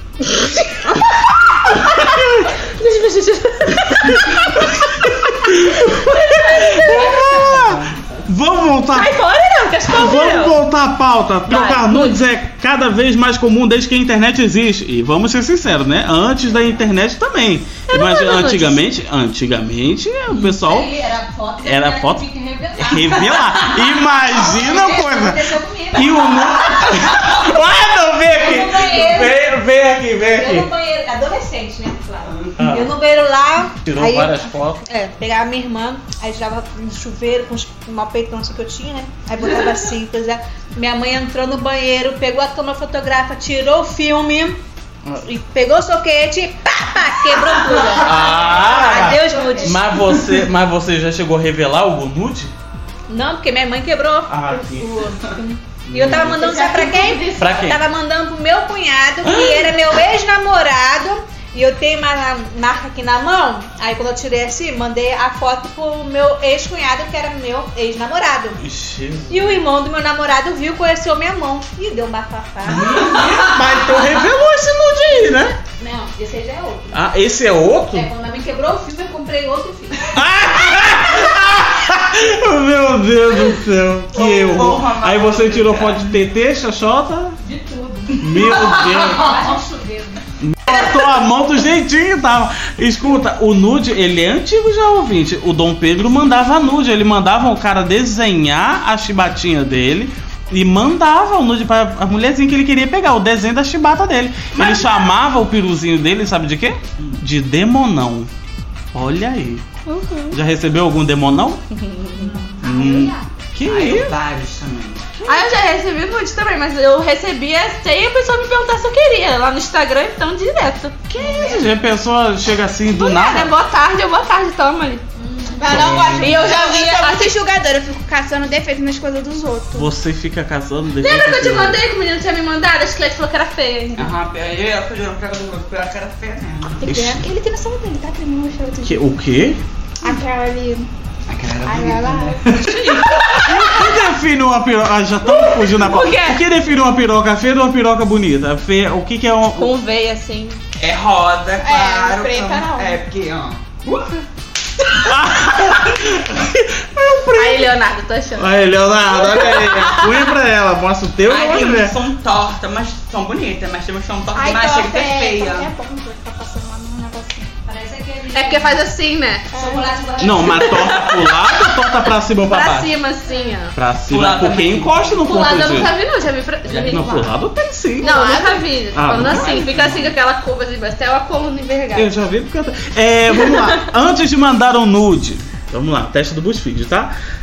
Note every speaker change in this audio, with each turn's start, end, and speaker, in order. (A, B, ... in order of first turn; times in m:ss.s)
0:00.3-0:01.1 A
0:00.9-0:02.5 B
0:01.7-0:04.8 A
0:03.8-0:09.2 B
0:05.8-0:07.4 A
0:06.8-0:08.2 C
0:08.9-0:10.6 A
0:09.9-0:20.9 B
0:11.5-0:12.2 A
0:17.9-0:18.8 A
0:20.3-0:27.5 D
0:21.6-0:30.7 B
0:28.2-0:29.5 D
0:30.3-0:44.6 D
0:32.6-0:32.9 B
0:33.8-0:34.8 B
0:45.1-0:50.0 D
0:48.0-0:52.5 B
0:48.0-0:49.8 E
0:53.1-1:08.6 D
0:54.3-0:55.2 B
0:55.9-0:56.7 B
0:56.2-0:57.6 A
0:57.4-0:57.8 B
0:59.2-0:59.7 B
1:08.6-1:09.6 B
1:09.3-1:13.2 D
1:12.6-1:15.6 B
1:15.8-1:17.0 D
1:16.9-1:18.1 B
1:17.9-1:20.2 D
1:20.1-1:27.4 B
1:24.1-1:26.1 C
1:27.5-1:30.2 D
1:28.2-1:29.4 B
1:30.4-1:48.3 B
1:48.9-1:49.6 B
1:49.9-1:50.3 E
1:50.3-1:51.6 B
1:51.8-1:52.3 A
1:52.2-1:53.2 D
1:52.6-1:54.2 B
1:53.7-1:55.2 C
1:55.2-1:55.5 B
1:55.3-2:01.1 A
2:01.1-2:03.6 B
2:02.9-2:05.0 A
2:05.2-2:05.6 D
2:05.6-2:09.9 E
2:05.6-2:06.5 C
2:05.7-2:06.0 B
2:06.2-2:07.4 A
2:09.8-2:11.8 B
2:11.0-2:14.1 A
2:14.0-2:16.9 C
2:16.8-2:19.1 E
2:16.9-2:17.2 B
2:18.8-2:19.6 B
2:20.0-2:20.9 E
2:21.3-2:23.2 C
2:21.6-2:22.7 E
2:22.6-2:23.7 A
2:23.4-2:29.7 B
2:25.3-2:26.4 A
2:29.5-2:30.6 A
2:30.8-2:34.2 C
2:31.6-2:33.0 E
2:35.0-2:37.7 B
2:37.3-2:40.2 A
2:38.4-2:42.0 B
2:41.3-2:45.7 C
2:44.4-2:47.5 E
2:47.6-2:48.8 D
2:48.3-2:49.5 A
2:49.5-2:51.0 D
2:49.5-2:49.9 E
2:50.2-2:52.9 B
2:50.6-2:51.8 A
2:52.5-2:53.8 A
2:53.7-2:55.9 B
2:54.1-2:55.5 C
2:55.2-2:57.2 A
2:56.7-2:57.3 C
2:56.9-2:58.2 B
2:58.0-2:58.7 E
2:58.0-3:02.1 A
2:58.9-3:00.1 B
2:59.1-3:00.1 C
3:01.9-3:07.1 B
3:03.4-3:03.8 A